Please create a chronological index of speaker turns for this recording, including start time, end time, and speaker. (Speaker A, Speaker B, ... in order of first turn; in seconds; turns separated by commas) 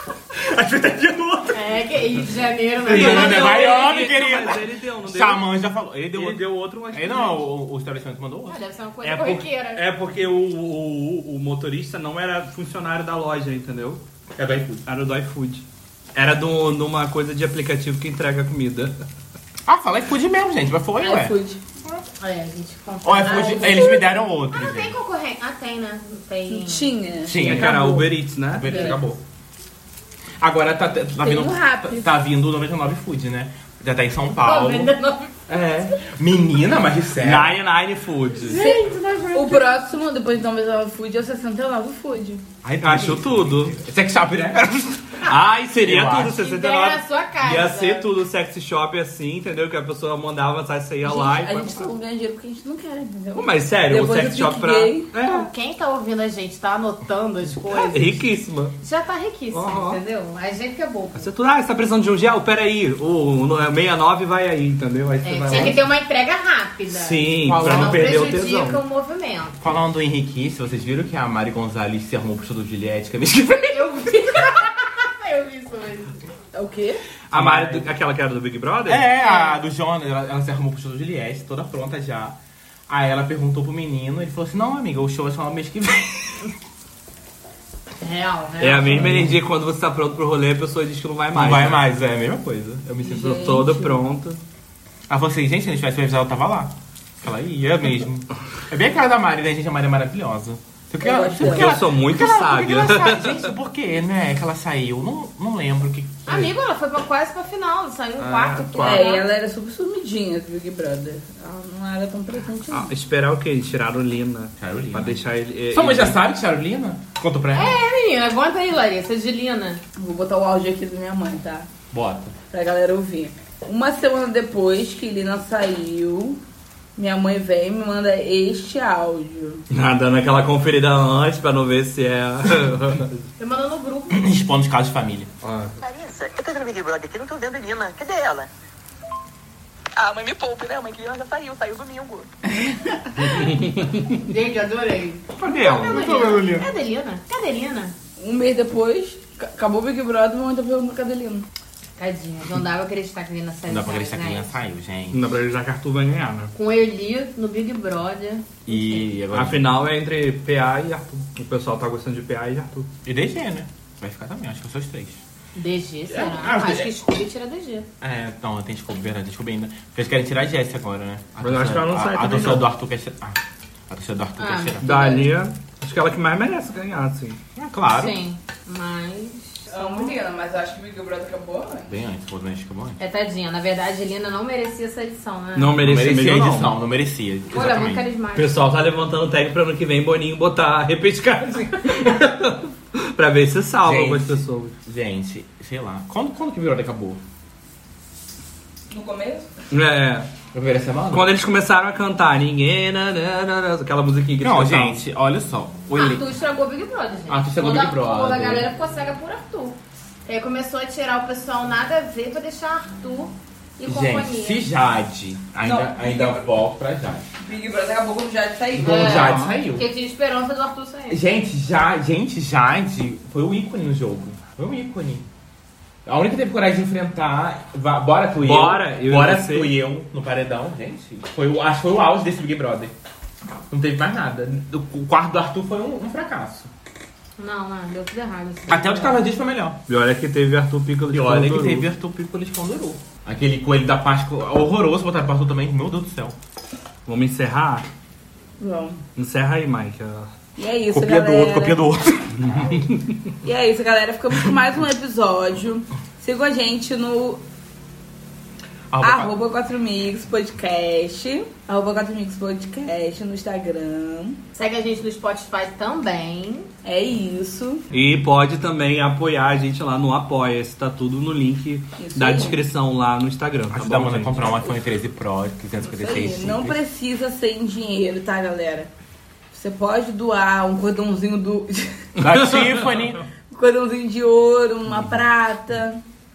Speaker A: 0.3-1.8, Speaker B: 1.5-3.8, Speaker A: 2.8-8.6, Speaker C: 2.9-5.4, Speaker C: 6.1-7.4, Speaker B: 8.5-9.8, Speaker C: 9.0-14.0, Speaker A: 14.3-14.8, Speaker C: 14.8-15.6, Speaker C: 16.1-18.9, Speaker A: 19.7-22.0, Speaker D: 21.0-21.6, Speaker B: 22.2-26.9, Speaker A: 23.0-25.0, Speaker D: 23.2-23.9, Speaker D: 26.5-28.1, Speaker A: 27.2-27.8, Speaker C: 27.3-28.7, Speaker A: 28.5-29.2, Speaker B: 28.7-29.0, Speaker A: 30.4-34.9, Speaker D: 31.2-32.1, Speaker B: 34.4-35.3, Speaker A: 35.5-37.6, Speaker C: 37.2-38.6, Speaker B: 38.5-39.8, Speaker D: 38.5-42.4, Speaker A: 42.6-45.3, Speaker C: 42.8-43.8, Speaker C: 45.2-51.9, Speaker A: 45.8-46.3, Speaker B: 46.2-48.1, Speaker D: 51.0-55.0, Speaker C: 53.3-55.5, Speaker B: 55.1-58.2, Speaker C: 57.7-58.7, Speaker B: 58.8-61.3, Speaker C: 59.5-60.0, Speaker C: 61.1-65.8, Speaker B: 65.2-69.6, Speaker A: 65.5-65.8, Speaker C: 66.9-68.8, Speaker A: 67.4-68.1, Speaker A: 69.6-74.0, Speaker B: 73.7-76.1, Speaker D: 76.5-77.0, Speaker C: 77.3-79.1, Speaker A: 77.3-77.9, Speaker A: 78.8-82.4, Speaker B: 79.2-79.5, Speaker A: 82.9-86.5, Speaker B: 88.0-89.2, Speaker C: 88.6-91.8, Speaker A: 88.9-89.4, Speaker A: 91.3-93.5, Speaker D: 93.0-94.0, Speaker C: 93.3-94.4, Speaker A: 95.1-106.5, Speaker D: 101.0-101.8, Speaker C: 101.4-103.5, Speaker B: 106.2-109.2, Speaker C: 108.2-108.7, Speaker A: 108.7-109.1, Speaker D: 108.7-112.9, Speaker C: 112.7-116.2, Speaker A: 114.6-115.2, Speaker A: 115.7-117.8, Speaker B: 117.5-119.8, Speaker D: 119.9-121.7, Speaker A: 121.9-122.3, Speaker D: 122.5-126.4, Speaker D: 127.0-129.6, Speaker C: 129.7-133.2, Speaker B: 133.4-134.2, Speaker A: 134.1-135.3, Speaker C: 135.4-135.8, Speaker E: 135.8-138.5, Speaker E: 139.9-142.3, Speaker D: 142.6-143.0, Speaker C: 143.2-144.2, Speaker B: 144.2-147.9, Speaker C: 145.4-146.6, Speaker A: 145.9-146.6, Speaker D: 148.2-151.5, Speaker B: 152.0-154.5, Speaker A: 153.7-155.3, Speaker C: 155.1-156.5, Speaker B: 156.5-159.1, Speaker A: 158.7-159.6, Speaker C: 159.3-162.9, Speaker A: 163.0-165.2, Speaker B: 165.6-167.9, Speaker A: 166.1-166.9, Speaker A: 168.0-174.8, Speaker C: 171.4-172.7, Speaker B: 174.4-175.3, Speaker C: 174.8-177.4, Speaker A: 177.6-178.2, Speaker B: 177.9-180.2, Speaker D: 179.7-181.9, Speaker A: 181.9-183.0, Speaker B: 183.0-185.8, Speaker C: 185.6-186.7, Speaker A: 185.8-188.0, Speaker B: 187.5-188.7, Speaker C: 188.3-194.7, Speaker A: 193.8-197.2, Speaker D: 198.9-199.5, Speaker C: 199.7-200.3, Speaker A: 200.5-201.3, Speaker C: 201.1-205.0, Speaker A: 204.4-206.3, Speaker B: 205.9-214.7, Speaker A: 207.3-208.7, Speaker A: 213.8-217.2, Speaker D: 215.6-216.4, Speaker D: 217.4-219.1, Speaker A: 218.7-219.8, Speaker B: 218.8-221.2, Speaker C: 219.1-219.4, Speaker A: 221.1-225.3, Speaker A: 226.1-232.9, Speaker C: 228.4-229.7, Speaker A: 233.7-236.7, Speaker B: 237.4-239.2, Speaker A: 238.7-239.8, Speaker C: 239.9-241.8, Speaker A: 241.1-246.3, Speaker C: 247.1-247.8, Speaker D: 248.6-249.0, Speaker C: 249.2-250.3, Speaker D: 250.6-251.8, Speaker A: 250.9-252.8, Speaker C: 252.6-252.8, Speaker D: 253.4-257.4, Speaker A: 258.9-259.3, Speaker D: 259.0-264.4, Speaker B: 264.6-266.7, Speaker D: 266.8-267.8, Speaker C: 267.9-274.6, Speaker D: 272.0-272.6, Speaker A: 273.7-276.8, Speaker D: 275.8-278.9, Speaker D: 279.5-282.1, Speaker C: 282.2-283.0, Speaker A: 282.2-283.2, Speaker D: 283.5-286.0, Speaker C: 284.9-285.2